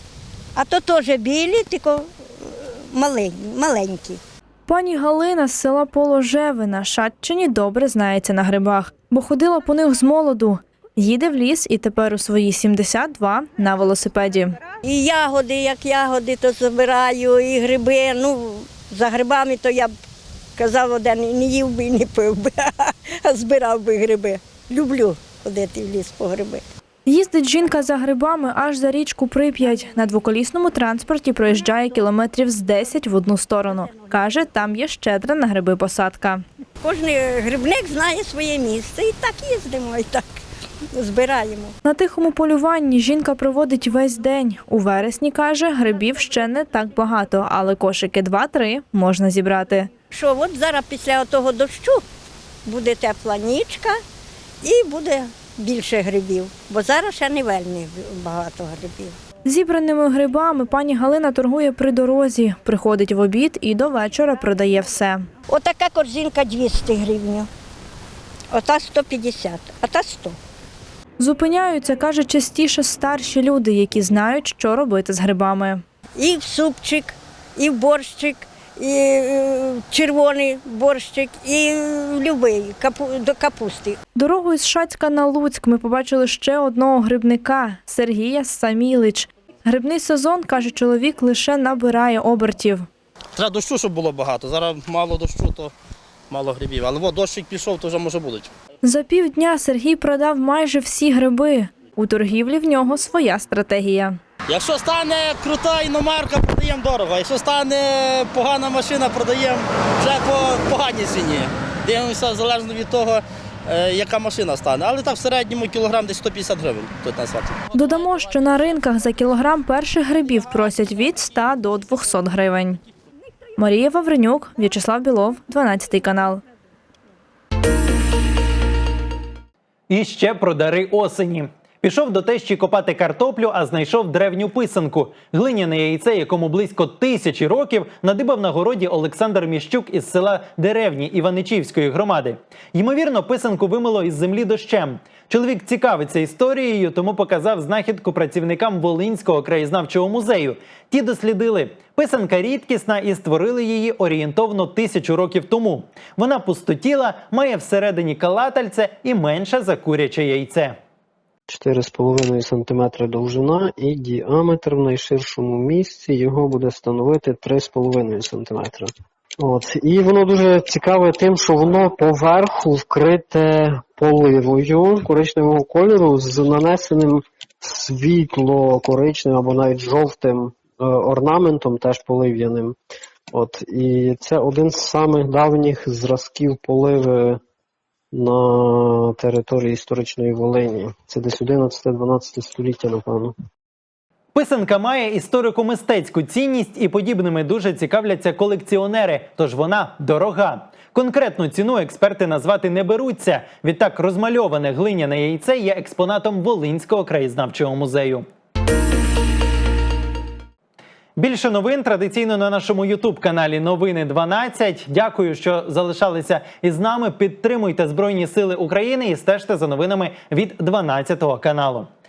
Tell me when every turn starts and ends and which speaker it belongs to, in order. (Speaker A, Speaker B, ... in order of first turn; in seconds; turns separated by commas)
Speaker A: 0.6-1.9, Speaker A: 3.0-4.2, Speaker B: 4.7-14.6, Speaker A: 14.9-19.9, Speaker A: 20.6-22.5, Speaker A: 23.3-26.6, Speaker B: 27.1-36.4, Speaker A: 36.9-40.2, Speaker A: 41.0-41.7, Speaker B: 41.8-49.9, Speaker A: 50.1-52.0, Speaker A: 52.7-53.9, Speaker A: 54.6-59.1, Speaker B: 59.5-65.3, Speaker A: 65.5-67.4, Speaker A: 68.5-70.3, Speaker B: 71.2-75.8, Speaker A: 76.2-77.1, Speaker A: 77.6-83.9, Speaker B: 84.2-92.9, Speaker C: 93.3-95.7, Speaker C: 96.3-98.5, Speaker B: 98.8-104.2, Speaker C: 104.5-117.7, Speaker B: 117.7-122.8, Speaker B: 123.6-126.4, Speaker D: 129.9-160.8, Speaker E: 161.5-182.8, Speaker E: 183.3-187.4, Speaker E: 188.1-193.3, Speaker D: 194.3-208.2, Speaker D: 211.2-221.9